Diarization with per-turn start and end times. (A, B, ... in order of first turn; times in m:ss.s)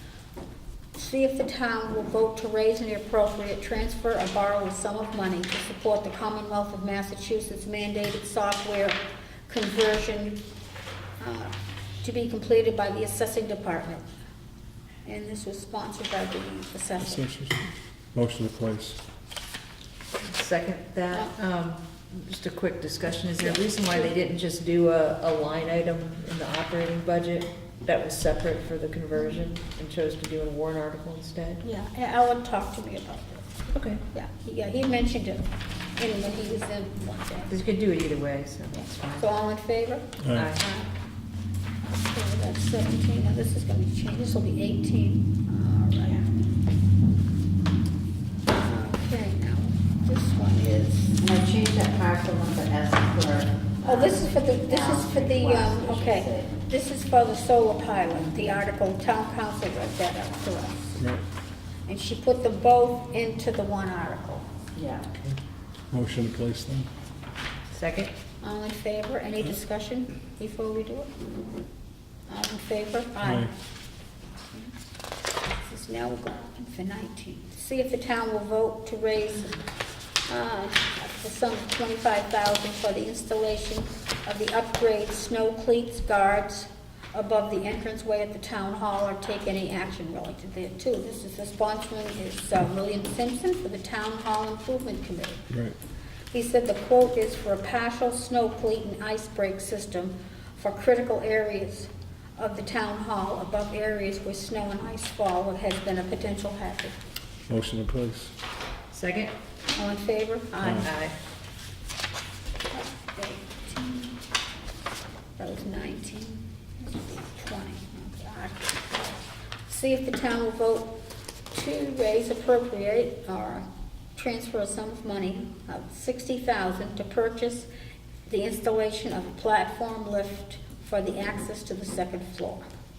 0:00.9-0:10.4 A
0:11.2-0:14.0 A
0:15.0-0:17.2 A
0:17.0-0:19.0 B
0:20.2-0:31.6 C
0:23.4-0:24.1 A
0:31.6-0:33.5 A
0:33.7-0:34.0 C
0:34.1-0:37.6 A
0:37.5-0:39.2 C
0:38.7-0:41.0 A
0:40.2-0:40.5 B
0:40.3-0:40.6 C
0:42.0-0:46.2 A
0:48.5-0:51.2 A
0:51.2-0:56.5 D
0:53.8-1:01.0 A
1:01.0-1:01.2 B
1:01.9-1:04.4 A
1:04.7-1:05.1 D
1:05.9-1:06.9 B
1:07.7-1:08.1 C
1:08.4-1:11.1 A
1:12.3-1:13.5 A
1:13.2-1:13.5 B
1:15.5-1:19.6 A
1:20.3-1:35.4 A
1:36.3-1:47.0 A
1:47.5-1:48.3 B
1:48.9-1:49.3 C
1:49.7-1:50.9 A
1:50.6-1:50.9 B
1:50.8-1:51.2 C
1:52.7-1:54.2 A
1:55.4-1:59.0 A
1:59.6-2:00.9 A
2:01.5-2:03.6 A
2:04.2-2:07.7 A
2:08.2-2:12.6 A